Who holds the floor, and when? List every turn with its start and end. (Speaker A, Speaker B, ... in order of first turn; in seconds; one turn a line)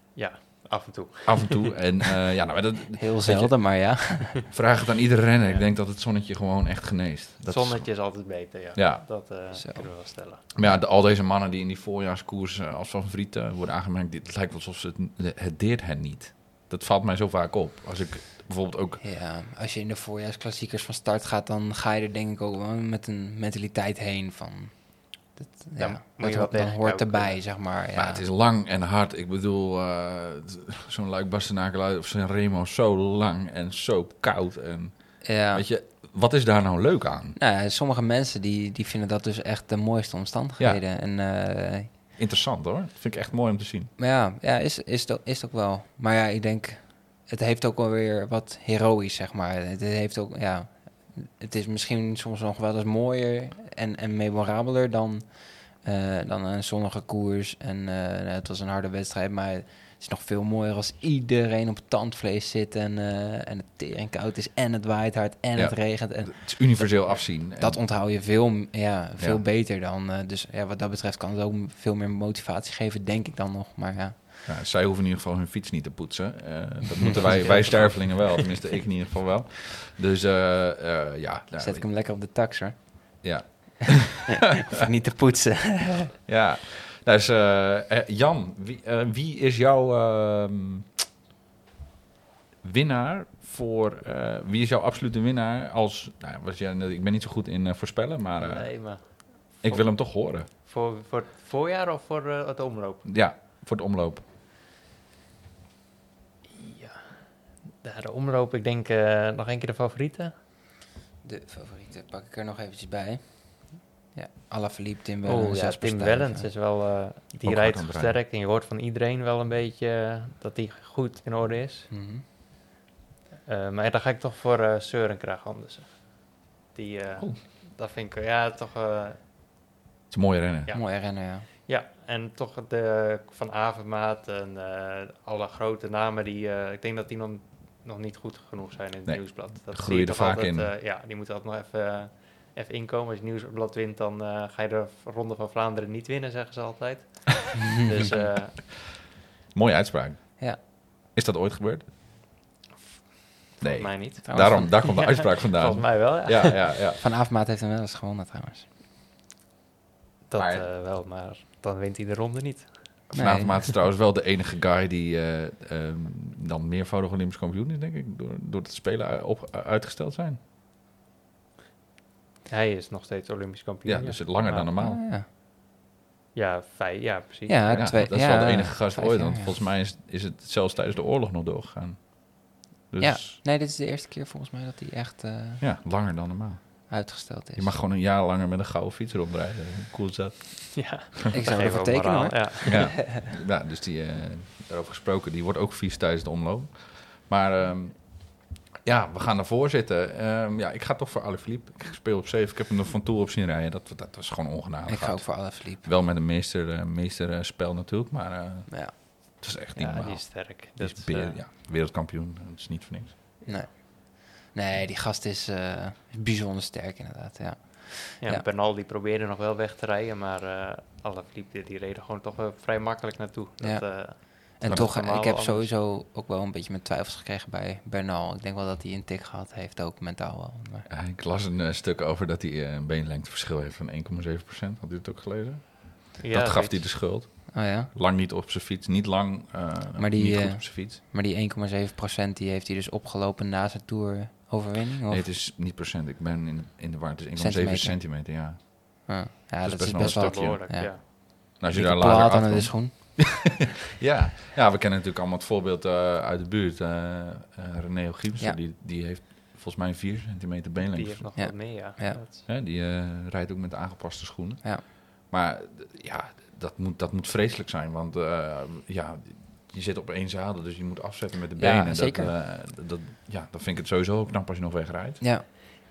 Speaker A: 0.1-1.9
Speaker B: 1.3-4.0
Speaker C: 3.0-4.4
Speaker B: 4.5-7.9
Speaker A: 7.5-10.5
Speaker B: 8.8-9.1
Speaker C: 9.5-9.9
Speaker B: 10.6-19.0
Speaker C: 19.0-28.2
Speaker A: 25.8-27.4
Speaker B: 27.9-37.4
Speaker C: 35.2-35.6
Speaker C: 37.4-41.9
Speaker B: 42.2-43.9
Speaker C: 44.0-74.5
Speaker B: 65.5-67.8
Speaker B: 74.5-81.9
Speaker C: 77.0-77.5
Speaker C: 81.6-83.5
Speaker B: 83.2-84.4
Speaker C: 84.4-86.2
Speaker B: 86.2-90.9
Speaker B: 92.6-98.9
Speaker A: 98.4-103.1
Speaker B: 99.6-100.5
Speaker B: 103.0-104.2
Speaker A: 106.5-110.3
Speaker C: 111.2-116.5
Speaker A: 115.2-121.9
Speaker B: 117.4-118.2
Speaker C: 121.9-122.2
Speaker A: 123.5-129.2
Speaker B: 130.1-130.7
Speaker A: 130.7-148.6
Speaker C: 130.7-131.5
Speaker B: 139.1-140.7
Speaker C: 147.6-148.2
Speaker B: 148.1-151.8
Speaker A: 153.5-156.7
Speaker B: 153.6-157.0
Speaker C: 154.3-154.8
Speaker C: 157.0-158.7
Speaker A: 160.3-163.0
Speaker B: 160.4-160.7
Speaker B: 163.1-170.4
Speaker C: 163.2-163.6
Speaker A: 172.5-174.7
Speaker B: 173.9-175.0
Speaker C: 174.8-175.3
Speaker A: 176.3-177.9
Speaker C: 177.5-179.6
Speaker B: 177.7-183.4
Speaker C: 183.0-185.6
Speaker B: 185.6-191.1
Speaker C: 186.9-187.8
Speaker A: 190.8-192.9
Speaker C: 191.3-193.0
Speaker B: 192.7-213.2
Speaker C: 204.9-205.9
Speaker C: 208.7-209.0
Speaker A: 209.8-211.4
Speaker C: 213.5-218.4
Speaker A: 218.2-225.7
Speaker C: 223.6-230.9
Speaker B: 224.6-224.9
Speaker B: 230.9-241.0
Speaker A: 236.2-236.9
Speaker C: 237.5-237.9
Speaker C: 240.0-245.2
Speaker B: 245.1-249.1
Speaker C: 247.4-248.0
Speaker C: 249.1-253.6
Speaker B: 249.6-261.2
Speaker A: 250.0-251.1
Speaker A: 260.9-262.5
Speaker C: 261.4-262.2
Speaker B: 262.5-275.5
Speaker C: 271.6-272.4
Speaker C: 275.2-275.5